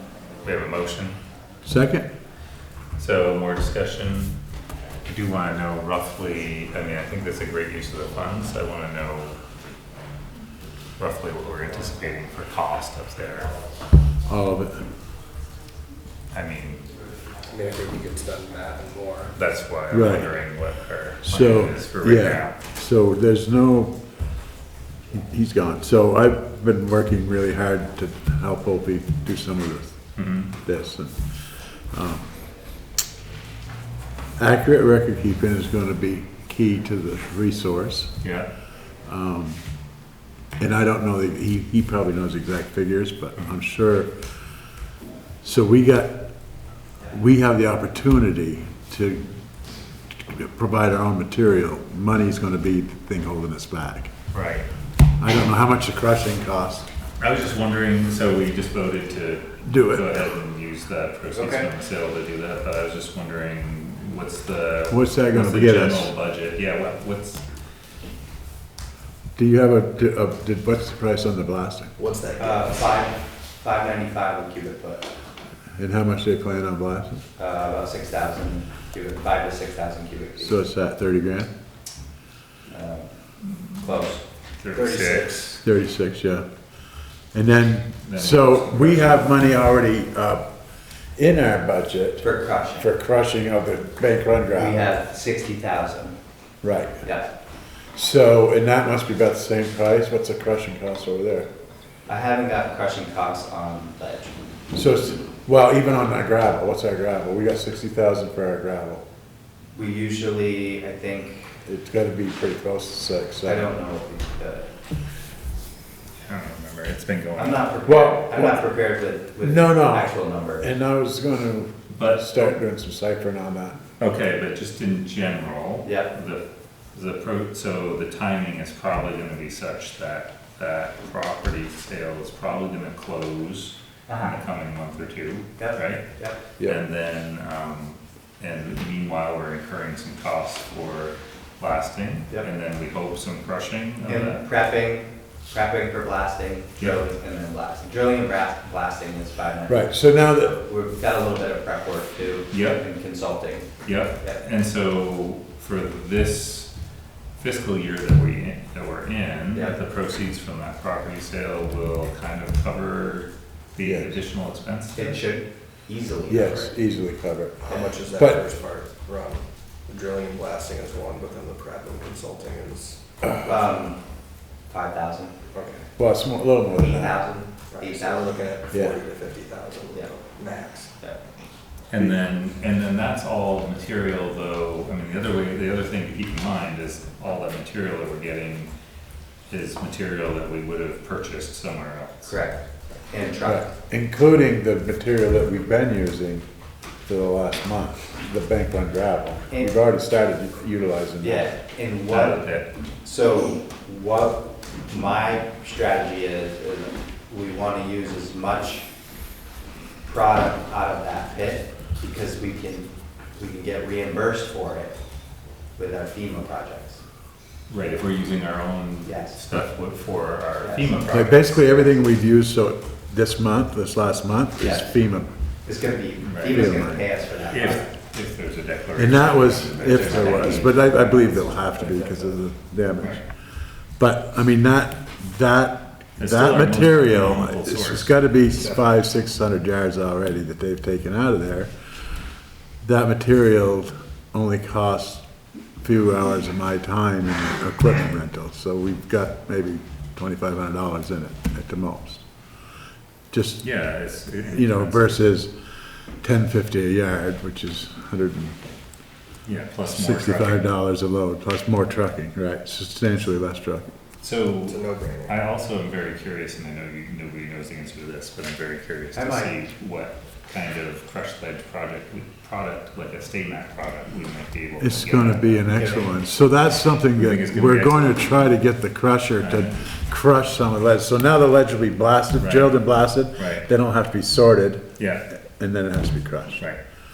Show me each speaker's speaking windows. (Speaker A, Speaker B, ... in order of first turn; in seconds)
Speaker A: 0.4-1.2, 3.0-4.4, 5.0-9.4, 11.0-13.6, 16.3-16.9, 19.3-22.6, 30.1-30.5, 38.2-38.5, 54.3-54.7, 57.2-67.4, 84.6-85.4, 88.0-89.3, 116.2-117.9, 121.9-122.6, 124.0-136.0, 136.6-144.4, 152.5-152.8, 153.8-156.7, 157.4-165.2, 181.9-188.7, 189.5-192.3, 202.1-202.7, 217.7-221.6, 226.2-226.7, 227.5-231.3, 236.2-238.1, 253.6-255.2, 259.4-260.7, 264.2-275.8, 277.0-278.5, 279.4-279.7, 282.4-283.7, 285.0-285.2
Speaker B: 1.6-2.1, 14.2-14.8, 19.9-20.4, 21.2-24.0, 25.1-31.4, 31.9-32.3, 34.4-38.1, 39.0-39.6, 40.6-44.2, 45.4-46.3, 47.1-49.3, 50.2-54.1, 55.2-56.9, 59.6-60.1, 64.9-66.1, 69.4-71.9, 75.8-77.2, 80.4-81.5, 85.6-86.5, 87.3-90.4, 91.2-94.8, 96.6-97.0, 97.9-101.5, 104.7-109.0, 111.7-113.8, 117.8-118.6, 119.4-123.8, 149.7-150.5, 163.8-164.1, 166.3-168.4, 176.0-177.2, 178.7-179.0, 193.4-196.4, 197.1-201.5, 221.1-225.3, 226.4-227.1, 228.9-233.2, 234.0-241.7, 242.8-245.2, 245.8-252.2, 253.3-253.7, 254.4-255.5, 256.2-258.6, 259.9-263.9, 274.8-286.7
Speaker C: 17.5-19.3, 72.0-72.9, 84.7-85.6, 167.7-173.0, 175.5-175.9, 177.7-180.9, 231.2-232.3, 264.7-265.3
Speaker D: 61.3-61.7, 72.4-75.1, 77.4-80.6, 82.7-83.1, 83.7-84.2, 92.2-92.9, 94.5-96.2, 97.0-97.3, 102.1-104.3, 109.7-111.6, 113.4-114.7, 117.3-120.6, 125.8-126.1, 134.1-134.4, 135.6-136.4, 144.1-154.4, 159.5-159.8, 164.9-166.7, 173.4-174.0, 174.7-175.3, 176.7-178.5, 181.0-181.3, 192.2-193.7, 201.2-208.9, 210.0-214.9, 215.8-217.0, 219.0-219.4, 220.6-221.0, 224.6-225.0, 225.6-227.9, 229.8-230.7, 269.1-269.5, 275.7-276.1